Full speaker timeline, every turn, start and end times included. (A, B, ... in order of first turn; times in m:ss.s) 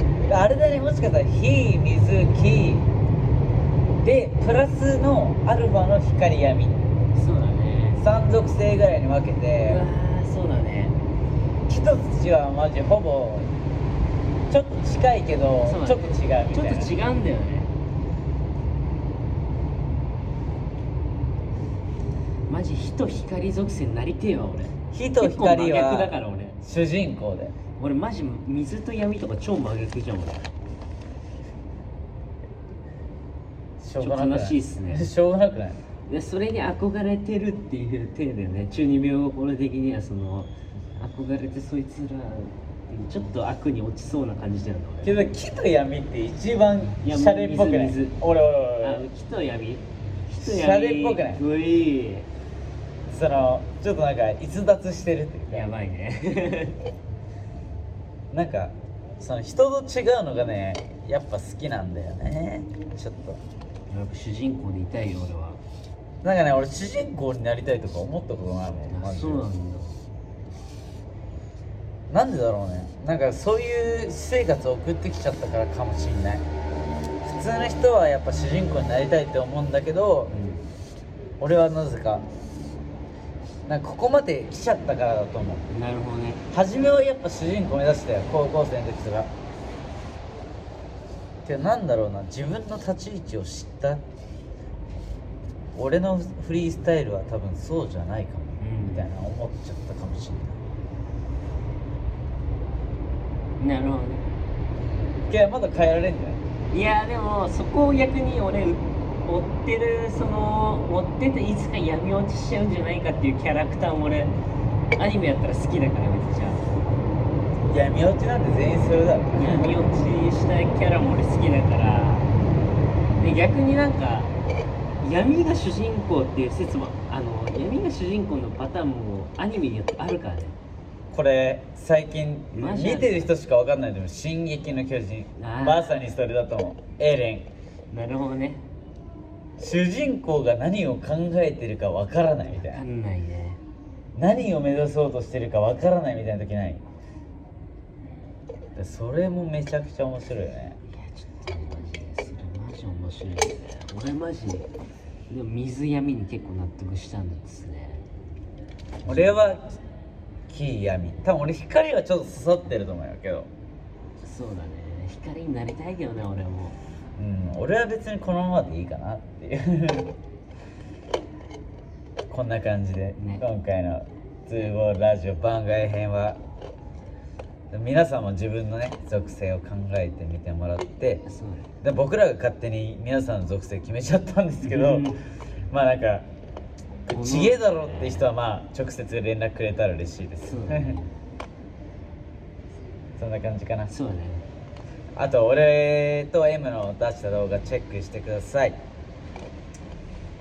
0:00.2-0:02.9 A
0:04.0-0:06.8 A
0:07.1-0:08.0 B
0:08.0-0:09.8 A
0:09.5-0:11.0 B
0:11.7-0:13.5 A
0:14.5-0:16.9 A
0:15.6-0:17.7 B
0:22.5-0:26.6 B
0:24.9-0:27.5 A
0:27.8-0:30.5 B
0:33.8-0:35.8 A
0:34.0-0:35.1 B
0:36.1-0:45.3 B
0:45.0-0:49.0 A
0:47.0-0:48.2 B
0:48.8-0:52.3 B
0:50.4-0:51.4 A
0:53.1-0:55.7 A
0:55.5-0:56.8 B
0:58.3-1:03.4 A
1:03.9-1:05.6 B
1:06.2-1:09.5 A
1:08.9-1:09.9 B
1:12.1-1:16.4 A
1:17.2-1:20.3 A
1:20.3-1:20.6 B
1:21.4-1:22.2 A
1:23.6-1:25.6 A
1:25.7-1:26.4 B
1:26.5-1:29.3 A
1:31.4-1:34.0 A
1:35.7-1:40.6 A
1:38.6-1:39.1 B
1:43.6-1:44.2 B
1:45.3-1:46.4 A
1:46.7-1:54.3 B
1:55.0-1:56.8 B
1:57.7-1:59.8 A
1:59.3-2:02.3 B
2:03.2-2:04.3 B
2:05.0-2:10.6 B
2:11.1-2:17.5 A
2:12.5-2:13.3 B
2:15.4-2:16.0 B
2:17.9-2:18.6 B
2:19.6-2:22.8 A
2:22.5-2:23.6 B
2:24.1-2:26.8 A
2:28.7-2:30.8 A
2:30.9-2:34.7 B
2:35.3-2:38.0 B
2:39.0-2:39.5 B
2:39.0-2:39.8 A
2:40.5-2:43.5 A
2:44.2-2:46.8 B
2:47.2-2:50.1 A
2:52.3-2:56.4 A
2:53.2-2:53.4 B
2:57.7-3:01.2 A
3:01.2-3:01.7 B
3:01.8-3:05.1 A
3:04.6-3:05.2 B
3:05.7-3:06.2 A
3:07.1-3:08.2 B
3:07.1-3:11.0 A
3:10.4-3:11.1 B
3:13.2-3:13.9 A
3:13.9-3:14.4 B
3:15.2-3:18.8 A